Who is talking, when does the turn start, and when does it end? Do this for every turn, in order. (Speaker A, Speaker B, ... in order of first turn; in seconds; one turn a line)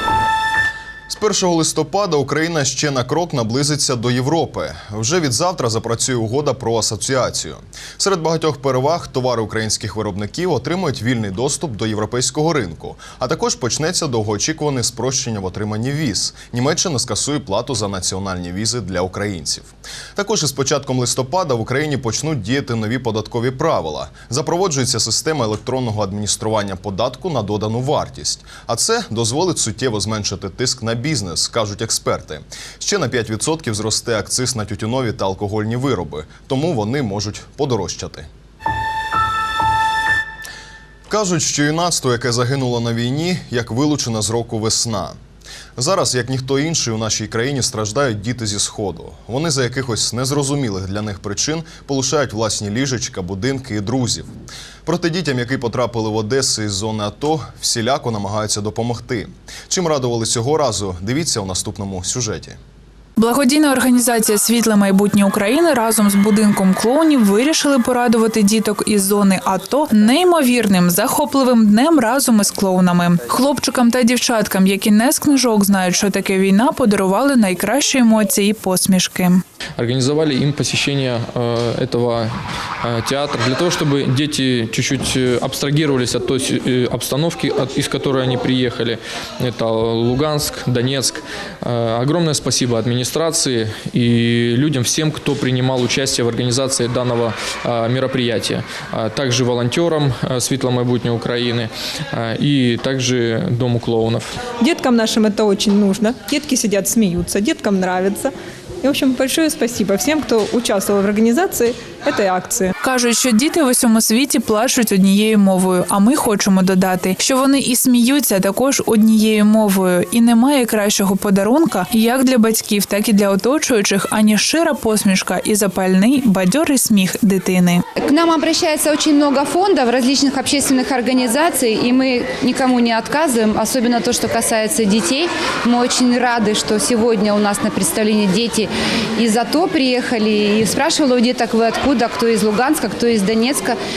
Speaker A: 1.1-38.3
Speaker A: 41.1-45.2
Speaker A: 45.8-54.3
Speaker A: 54.9-62.6
Speaker B: 63.2-79.4
Speaker C: 79.8-104.3
Speaker D: 104.6-108.3
Speaker D: 108.8-112.7
Speaker B: 112.8-127.8
Speaker E: 128.0-143.8